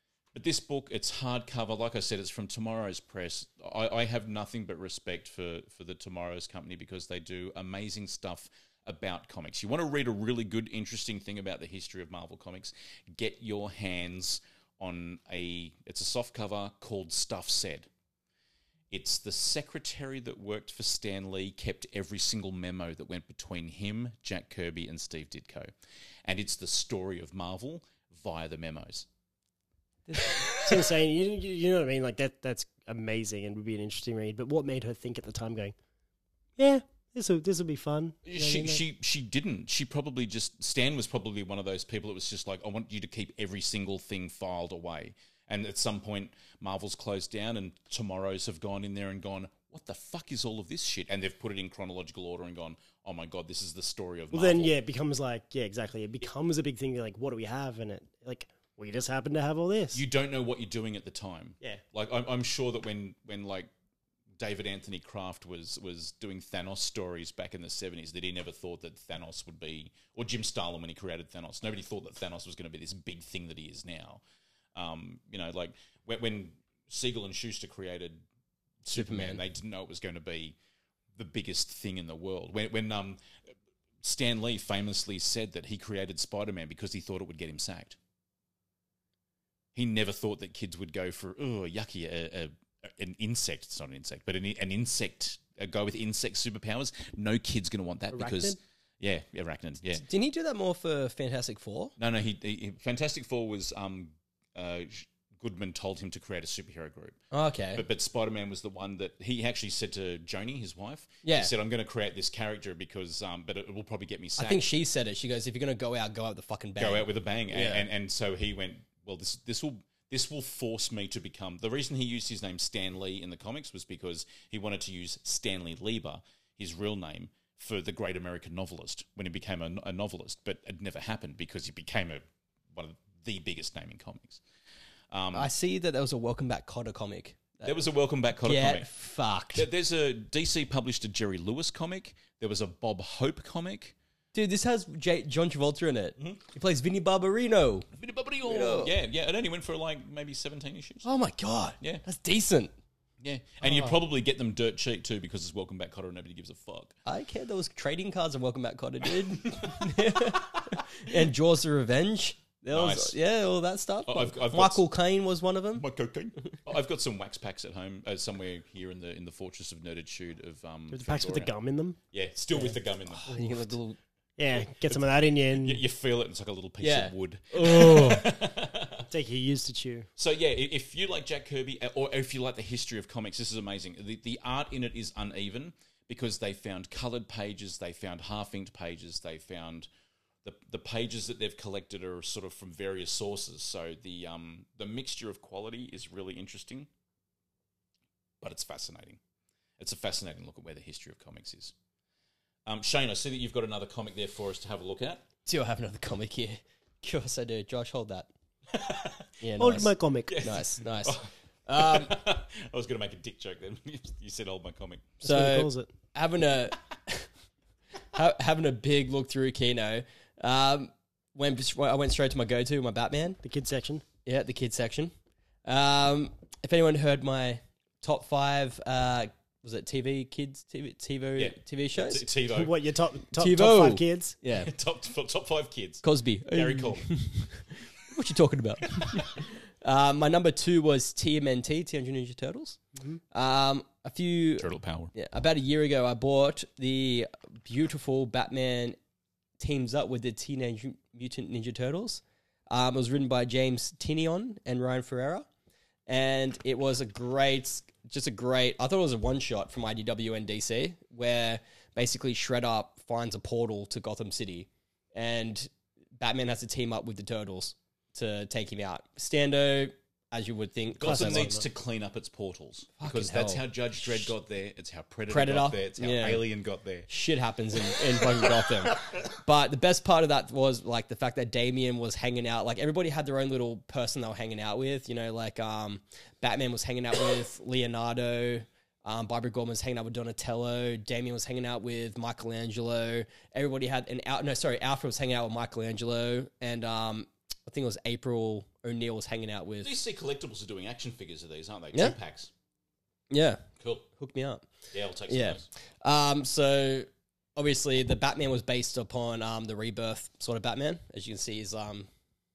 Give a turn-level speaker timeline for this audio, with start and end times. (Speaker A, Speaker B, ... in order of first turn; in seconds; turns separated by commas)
Speaker A: 0.3-17.9, Speaker A: 18.9-25.7, Speaker A: 26.2-29.1, Speaker B: 30.1-30.3, Speaker A: 30.2-30.5, Speaker C: 30.6-35.7, Speaker C: 36.6-38.8, Speaker A: 38.2-54.7, Speaker C: 54.3-60.0, Speaker A: 59.9-63.7, Speaker A: 64.4-74.2, Speaker A: 74.7-78.2, Speaker A: 78.8-80.5, Speaker B: 78.9-79.4, Speaker A: 81.1-83.2, Speaker A: 84.0-88.0, Speaker A: 89.7-100.0, Speaker C: 98.1-98.6, Speaker B: 100.0-101.9, Speaker A: 102.0-107.2, Speaker B: 107.3-107.8, Speaker A: 107.7-114.6, Speaker B: 111.2-111.5, Speaker B: 114.4-117.8, Speaker A: 116.8-134.4, Speaker A: 135.1-135.5, Speaker B: 135.3-137.8, Speaker A: 137.6-138.9, Speaker B: 138.4-139.7, Speaker A: 139.5-143.9, Speaker B: 144.3-147.9, Speaker A: 147.9-151.1, Speaker B: 148.4-148.9, Speaker B: 151.0-152.7, Speaker A: 153.2-156.9, Speaker B: 153.6-153.9, Speaker B: 157.1-165.8, Speaker A: 159.4-161.2, Speaker A: 162.7-163.2, Speaker A: 164.1-164.8, Speaker A: 165.7-171.5, Speaker C: 170.9-172.0, Speaker A: 172.1-173.8, Speaker B: 172.6-174.0, Speaker C: 174.4-175.8, Speaker A: 174.5-179.1, Speaker B: 176.8-178.3, Speaker C: 179.1-180.1, Speaker A: 180.2-189.9, Speaker A: 190.4-196.9, Speaker A: 198.4-199.2, Speaker A: 199.8-201.7, Speaker A: 202.7-205.2, Speaker B: 205.4-208.3, Speaker A: 208.7-209.3, Speaker B: 209.4-212.1, Speaker C: 209.6-210.5, Speaker A: 210.3-215.1, Speaker C: 215.2-215.9, Speaker B: 215.2-217.3, Speaker B: 218.1-223.4, Speaker C: 223.4-224.0, Speaker B: 224.2-225.1, Speaker B: 225.6-232.2, Speaker A: 231.3-232.7, Speaker C: 232.5-234.4, Speaker B: 233.4-234.7, Speaker A: 234.5-237.1, Speaker B: 236.0-242.8, Speaker A: 239.0-239.2, Speaker B: 243.3-249.0, Speaker A: 244.6-245.1, Speaker B: 249.6-255.4, Speaker B: 256.1-271.5, Speaker A: 271.0-277.1, Speaker C: 271.0-271.6, Speaker B: 273.0-274.3, Speaker B: 275.3-276.4, Speaker B: 277.1-299.9, Speaker A: 277.8-278.5, Speaker A: 299.8-302.5, Speaker B: 303.3-303.6, Speaker A: 303.8-304.1, Speaker B: 304.2-304.7, Speaker A: 304.9-305.6, Speaker B: 305.3-312.1